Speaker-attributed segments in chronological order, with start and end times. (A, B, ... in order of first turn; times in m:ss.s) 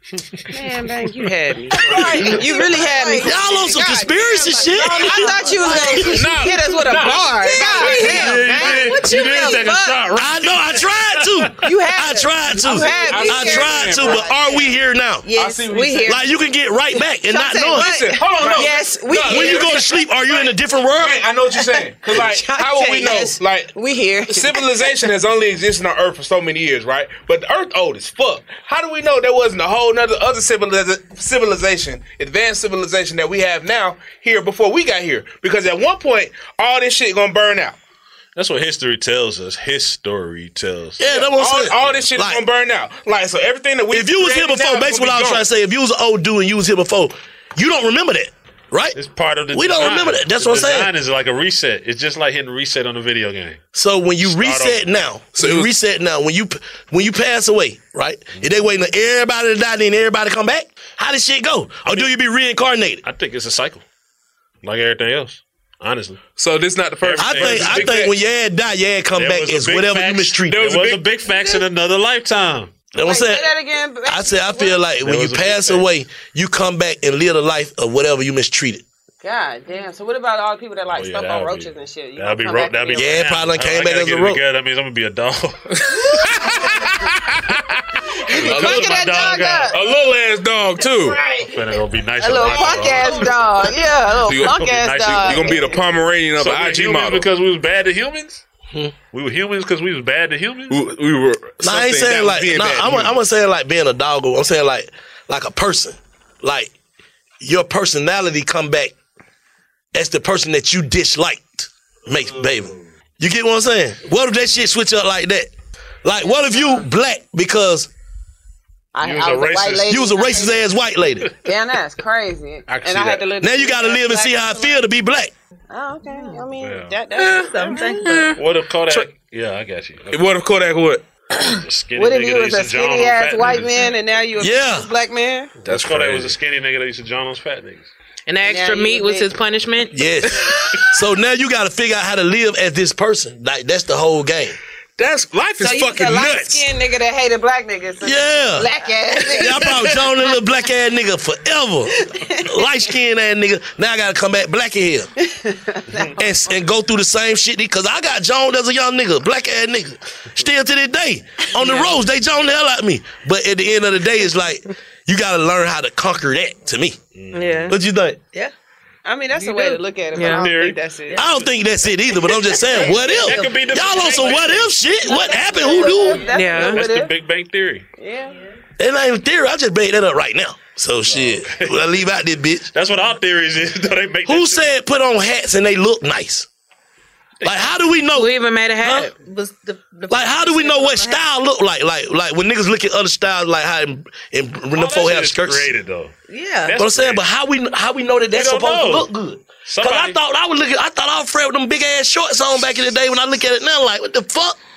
0:00.5-0:09.9 A
0:01.8-0:06.5 B
0:03.2-0:06.3 C
0:06.0-0:08.7 D
0:07.0-0:09.8 B
0:07.9-0:11.5 E
0:10.1-0:15.3 C
0:11.6-0:14.7 A
0:11.7-0:13.3 B
0:12.8-0:14.3 D
0:15.2-0:16.2 B
0:15.3-0:16.2 D
0:16.0-0:17.9 C
0:17.3-0:18.6 B
0:17.3-0:20.0 A
0:17.7-0:19.9 D
0:19.2-0:21.2 C
0:21.0-0:23.7 D
0:21.5-0:24.9 A
0:24.2-0:37.8 D
0:38.4-0:41.3 E
0:41.0-0:42.4 C
0:41.3-0:45.4 D
0:43.9-0:49.0 C
0:48.9-0:53.6 E
0:49.5-0:50.9 C
0:53.7-1:03.0 C
0:54.2-0:54.8 E
0:55.4-0:55.7 D
1:01.8-1:02.1 E
1:03.0-1:03.8 E
1:04.6-1:06.2 E
1:06.4-1:08.1 D
1:07.0-1:07.9 E
1:07.2-1:10.6 C
1:09.1-1:12.7 E
1:10.5-1:11.0 D
1:12.9-1:13.5 C
1:13.0-1:14.8 A
1:14.0-1:18.8 C
1:15.0-1:15.9 E
1:19.2-1:23.1 A
1:20.9-1:26.4 E
1:22.9-1:24.4 C
1:25.8-1:27.8 D
1:28.3-1:29.8 A
1:28.3-1:31.2 D
1:28.3-1:29.8 E
1:31.1-1:31.5 B
1:31.4-1:33.4 E
1:32.2-1:35.8 A
1:32.5-1:33.1 B
1:34.2-1:37.3 D
1:34.3-1:35.8 E
1:36.4-1:38.4 E
1:39.1-1:40.9 E
1:40.7-1:43.2 D
1:41.6-1:46.7 C
1:47.4-1:48.9 C
1:49.9-1:55.5 C
1:52.1-1:52.8 E
1:56.0-1:57.9 C
1:56.2-1:56.8 A
1:58.9-2:00.7 A
1:59.0-1:59.9 E
1:59.8-2:01.3 C
2:01.4-2:04.8 A
2:02.7-2:03.2 D
2:03.4-2:05.3 C
2:05.7-2:08.1 A
2:06.1-2:06.5 B
2:06.7-2:07.4 D
2:07.2-2:08.3 B
2:08.0-2:08.4 F
2:08.3-2:10.2 E
2:10.1-2:11.0 D
2:11.4-2:13.5 E
2:12.0-2:15.5 A
2:14.4-2:14.9 C
2:15.6-2:16.4 D
2:15.6-2:17.9 E
2:18.3-2:19.9 F
2:18.4-2:19.3 A
2:19.9-2:24.6 C
2:25.0-2:26.3 D
2:25.6-2:30.1 A
2:26.1-2:26.6 C
2:28.0-2:28.7 C
2:29.3-2:35.1 C
2:32.0-2:32.7 A
2:35.2-2:36.4 A
2:36.2-2:47.0 C
2:41.6-2:41.9 F
2:47.1-2:47.8 E
2:47.3-2:47.8 F
2:47.7-2:48.2 C
2:49.0-2:51.2 A
2:49.4-2:49.8 B
2:50.1-2:50.5 F
2:50.2-2:51.5 E
2:51.1-2:56.2 C
2:52.2-2:54.2 B
2:52.6-2:53.1 A
2:53.0-2:54.7 E
2:55.0-2:57.1 A
2:55.1-2:56.2 B
2:56.3-2:56.8 F
2:56.5-2:57.9 E
2:58.0-2:58.3 A
2:58.8-3:02.7 C
3:01.0-3:01.9 E
3:02.7-3:04.8 E
3:04.2-3:06.5 C
3:07.4-3:07.8 E
3:07.4-3:09.1 C
3:08.1-3:09.1 F
3:09.1-3:11.2 B
3:10.1-3:15.7 C
3:14.7-3:16.1 E
3:16.3-3:16.8 B
3:16.6-3:17.2 E
3:16.7-3:24.6 C
3:18.3-3:19.1 E
3:19.6-3:20.2 E